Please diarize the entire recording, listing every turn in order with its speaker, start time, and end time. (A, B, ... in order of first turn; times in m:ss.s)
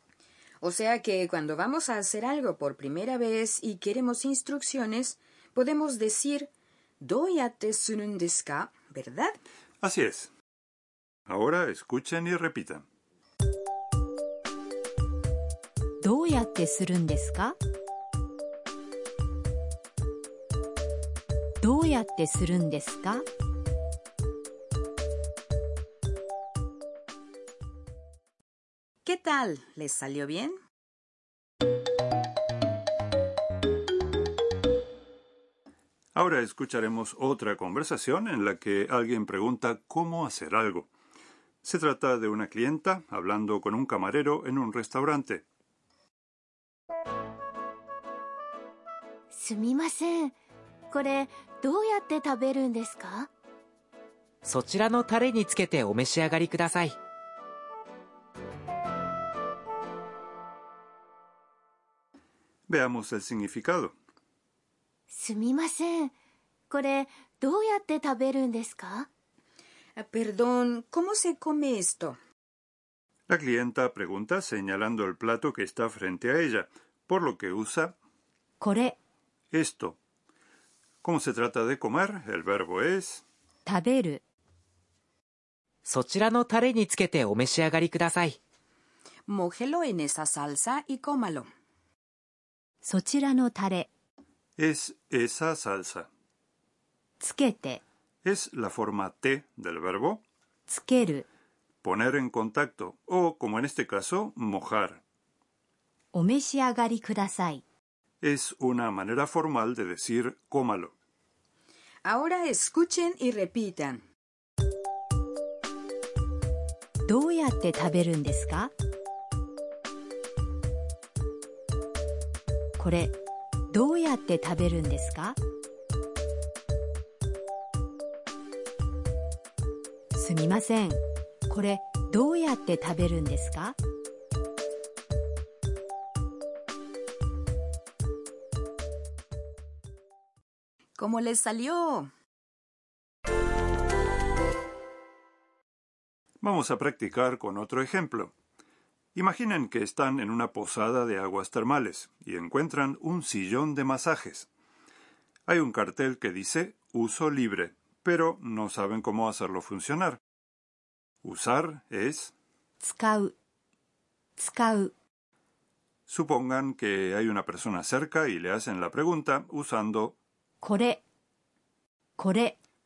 0:00.6-0:06.5 A
0:07.0-0:09.4 A
0:09.8-0:10.3 B
0:11.3-0:12.9 B
0:16.0-0:17.6 C
0:21.6-0:23.2 C
0:29.0-0:30.6 A
0:36.2-0:40.9 B
0:41.6-0:45.4 B
0:49.4-0:50.3 D
0:50.9-0:53.3 D
0:54.4-0:57.0 E
1:02.7-1:04.0 B
1:05.1-1:06.1 D
1:06.7-1:09.1 D
1:10.0-1:12.2 A
1:13.3-1:18.0 B
1:18.6-1:19.0 C
1:19.5-1:20.0 B
1:21.0-1:23.2 B
1:23.6-1:24.2 C
1:25.8-1:28.4 E
1:29.3-1:31.5 A
1:32.8-1:33.9 C
1:34.6-1:36.1 B
1:37.2-1:37.8 C
1:38.2-1:40.2 B
1:40.7-1:41.3 C
1:41.8-1:45.0 B
1:46.1-1:47.6 C
1:48.2-1:50.9 B
1:52.0-1:54.0 A
1:57.0-1:58.7 C
2:02.8-2:03.2 C
2:03.7-2:05.4 C
2:10.1-2:13.8 C
2:21.0-2:22.1 A
2:26.4-2:28.3 B
2:29.2-2:34.5 B
2:35.5-2:40.2 B
2:41.2-2:42.3 B
2:42.8-2:43.3 C
2:44.4-2:44.9 C
2:46.1-2:50.2 B
2:50.6-2:51.0 C
2:52.2-2:52.6 C